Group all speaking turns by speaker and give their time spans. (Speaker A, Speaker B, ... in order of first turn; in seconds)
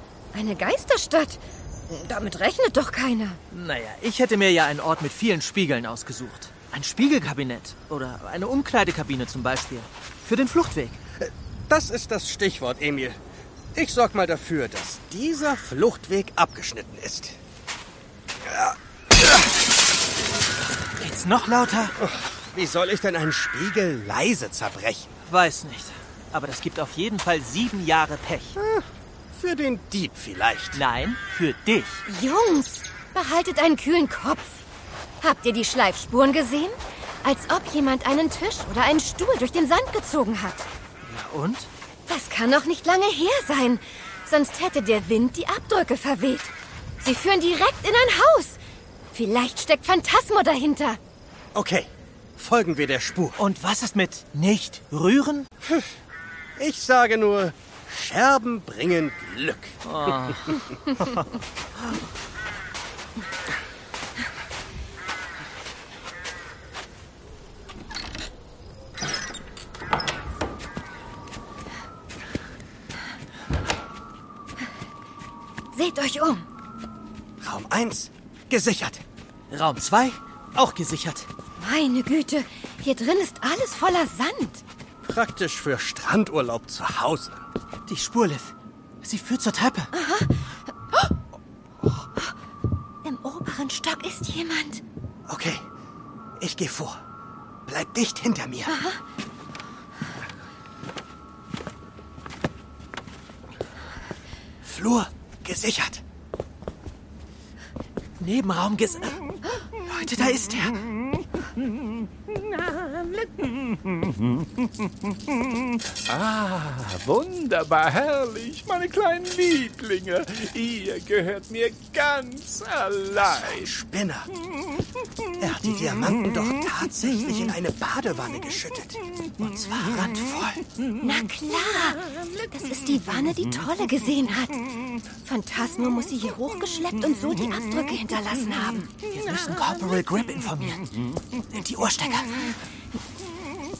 Speaker A: 0.3-3.4, 32.1-34.6, 35.2-40.7, 42.1-48.6, 49.1-51.0, 75.7-76.4, 81.6-84.6, 89.9-90.3, 93.0-94.8, 98.7-99.0, 131.0-134.5, 135.2-139.0
Speaker B: 3.5-11.0, 21.0-21.9, 25.2-28.6, 30.7-32.0, 41.0-41.7, 53.4-55.5, 59.8-60.4, 79.5-81.3, 87.9-89.9, 108.2-109.2, 109.8-110.8, 129.4-130.6, 139.1-140.9, 141.5-142.5
Speaker C: 11.2-13.2, 13.7-17.4, 18.4-18.8, 22.0-25.1, 28.6-30.8, 51.5-53.4, 56.6-59.8, 77.4-79.0, 85.0-87.4, 95.3-95.7, 96.4-97.0, 97.7-98.7, 104.6-106.0, 123.2-124.3, 125.4-129.0
Speaker D: 113.2-114.4, 116.0-123.7